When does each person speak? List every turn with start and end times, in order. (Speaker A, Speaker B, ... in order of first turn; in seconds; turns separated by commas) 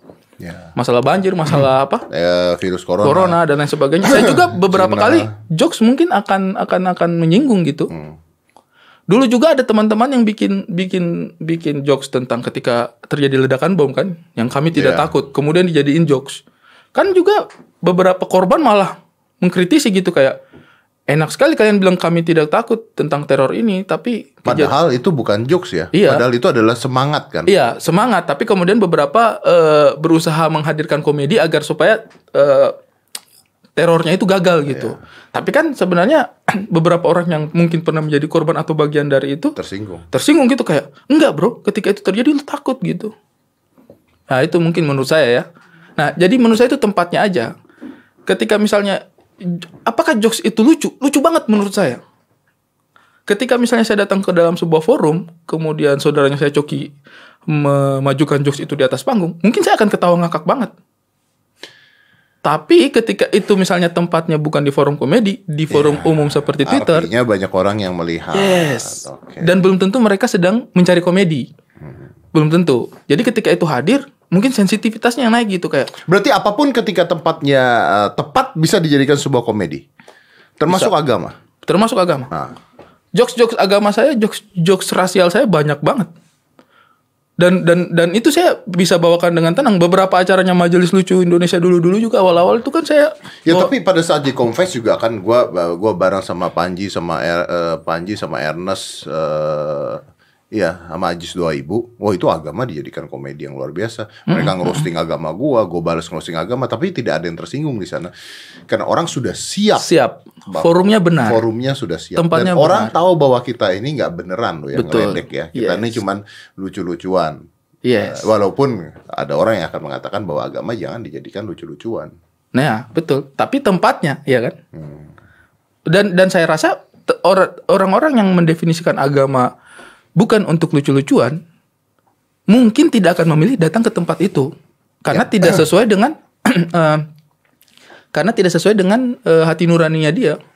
Speaker A: 0.4-0.7, Speaker B: 0.8-2.0, Speaker A: 2.1-3.4, Speaker B: 3.0-7.9, Speaker A: 4.0-5.2, Speaker A: 7.9-8.2, Speaker B: 9.1-16.4, Speaker A: 14.7-15.1, Speaker B: 16.9-20.4, Speaker B: 21.1-24.7, Speaker A: 24.4-27.5, Speaker B: 25.9-26.2, Speaker B: 27.5-32.8, Speaker B: 33.8-39.6, Speaker A: 34.7-34.9, Speaker A: 39.5-40.0, Speaker B: 40.1-43.1, Speaker B: 44.3-47.5, Speaker B: 48.2-52.0, Speaker B: 53.3-56.9, Speaker B: 57.5-60.7, Speaker B: 62.4-67.1, Speaker A: 65.7-69.5, Speaker B: 68.3-71.5, Speaker B: 72.3-75.9, Speaker A: 76.0-79.8, Speaker A: 80.6-81.3, Speaker B: 81.6-82.3, Speaker B: 83.1-86.1, Speaker B: 87.4-93.7, Speaker A: 93.5-100.0, Speaker A: 100.5-108.1, Speaker B: 104.3-104.9, Speaker A: 108.7-109.9, Speaker B: 109.8-111.4, Speaker A: 110.5-117.3, Speaker B: 112.2-113.0, Speaker B: 114.7-116.0, Speaker B: 117.8-118.3, Speaker A: 118.0-122.1, Speaker B: 122.5-124.5, Speaker A: 124.8-125.0, Speaker B: 125.9-129.5, Speaker B: 130.2-131.4, Speaker B: 132.5-134.5, Speaker B: 135.0-137.1, Speaker B: 138.1-140.4